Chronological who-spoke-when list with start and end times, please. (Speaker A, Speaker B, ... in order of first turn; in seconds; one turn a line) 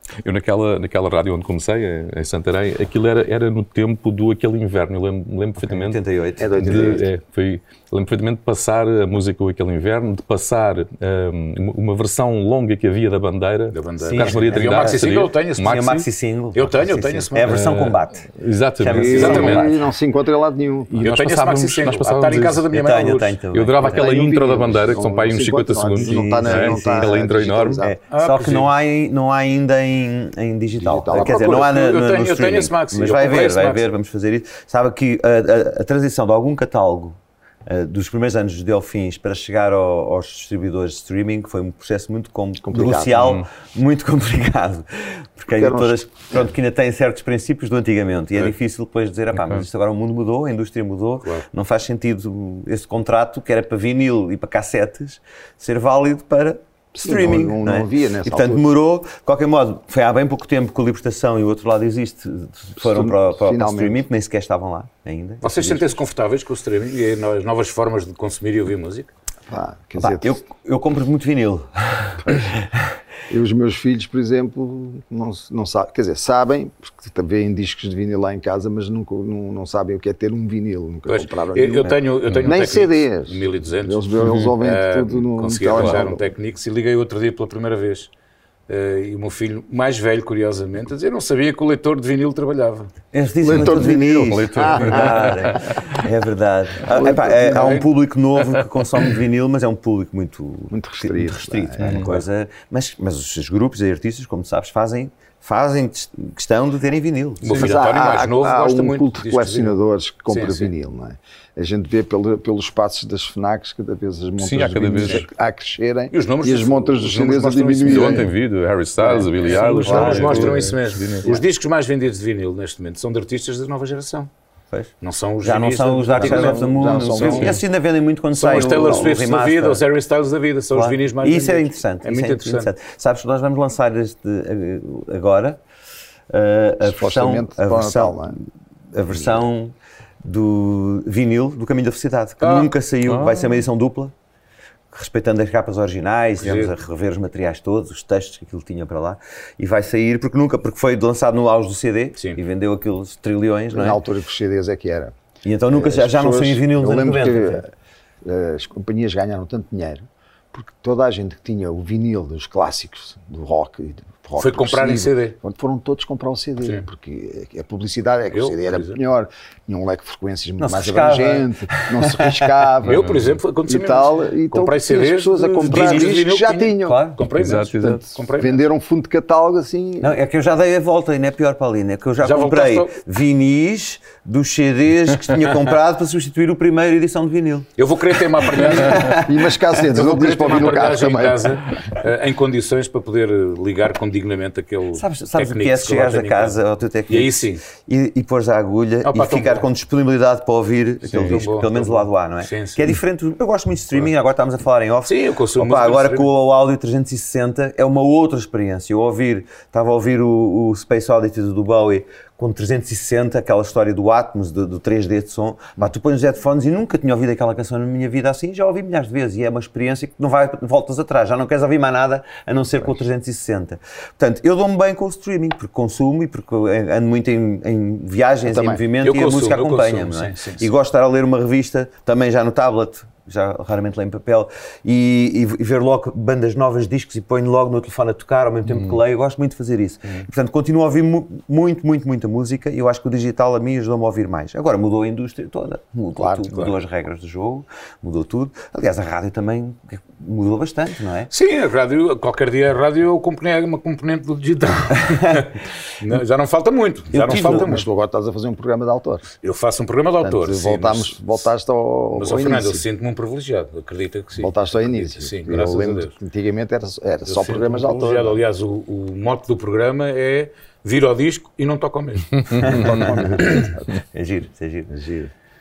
Speaker A: 0.2-6.0
Speaker B: 5.6-7.0
Speaker C: 6.4-7.1
Speaker A: 6.5-16.1
Speaker D: 13.7-16.0
Speaker B: 14.0-19.8
Speaker D: 16.5-17.6
Speaker A: 17.4-19.7
Speaker C: 18.9-21.0
Speaker D: 19.0-19.6
Speaker A: 20.9-22.6
Speaker D: 21.0-23.4
Speaker B: 22.7-24.0
Speaker A: 23.5-27.8
Speaker C: 23.8-27.9
Speaker B: 26.0-65.9
Speaker D: 28.1-28.7
Speaker C: 30.8-31.6
Speaker D: 31.1-33.9
Speaker C: 42.6-43.3
Speaker A: 43.2-43.5
Speaker C: 45.5-46.0
Speaker A: 49.4-49.6
Speaker C: 56.9-58.6
Speaker C: 62.8-64.0
Speaker D: 65.4-69.1
Speaker C: 69.5-70.4
Speaker B: 70.0-72.6
Speaker C: 73.3-86.2
Speaker D: 81.1-88.1
Speaker D: 88.7-92.9
Speaker B: 93.1-107.8
Speaker C: 93.4-95.6
Speaker A: 93.5-95.8
Speaker C: 96.8-97.9
Speaker C: 100.7-102.1
Speaker A: 101.8-102.1
Speaker D: 107.4-110.7
Speaker C: 107.5-118.3
Speaker A: 114.4-115.3
Speaker D: 116.1-118.3
Speaker A: 117.8-121.3
Speaker C: 119.0-120.7
Speaker D: 119.4-124.3
Speaker B: 124.7-129.8
Speaker D: 125.0-127.6
Speaker C: 126.2-127.6
Speaker A: 127.3-127.5
Speaker D: 128.3-132.7
Speaker C: 128.5-129.1
Speaker B: 130.7-135.6
Speaker B: 136.3-144.1
Speaker C: 136.8-138.4
Speaker D: 142.4-142.7
Speaker A: 143.1-143.6
Speaker B: 144.9-154.0
Speaker D: 146.4-146.7
Speaker C: 153.7-155.1
Speaker B: 155.4-157.6
Speaker C: 155.7-157.7
Speaker C: 158.2-177.0
Speaker D: 164.4-165.4
Speaker D: 168.3-169.0
Speaker B: 170.6-172.4
Speaker D: 172.8-178.6
Speaker A: 172.9-173.2
Speaker B: 175.7-176.1
Speaker B: 176.8-177.2
Speaker A: 177.4-178.1
Speaker C: 177.8-180.1
Speaker B: 180.0-187.7
Speaker D: 182.2-182.9
Speaker D: 187.8-189.2
Speaker B: 188.5-189.4
Speaker C: 188.9-191.6
Speaker D: 189.8-197.6
Speaker B: 194.9-251.3
Speaker D: 199.0-199.7
Speaker A: 201.1-201.4
Speaker D: 201.1-202.9
Speaker D: 205.0-206.3
Speaker C: 228.4-228.8
Speaker D: 229.0-230.7
Speaker C: 246.2-246.7
Speaker D: 251.3-257.8
Speaker B: 255.0-255.5
Speaker B: 257.1-257.7
Speaker C: 257.3-259.2
Speaker D: 259.4-261.2
Speaker C: 260.2-262.8
Speaker D: 262.1-266.1
Speaker C: 264.4-268.4
Speaker D: 267.2-273.1
Speaker B: 272.5-274.9
Speaker C: 272.6-273.9
Speaker C: 274.9-275.3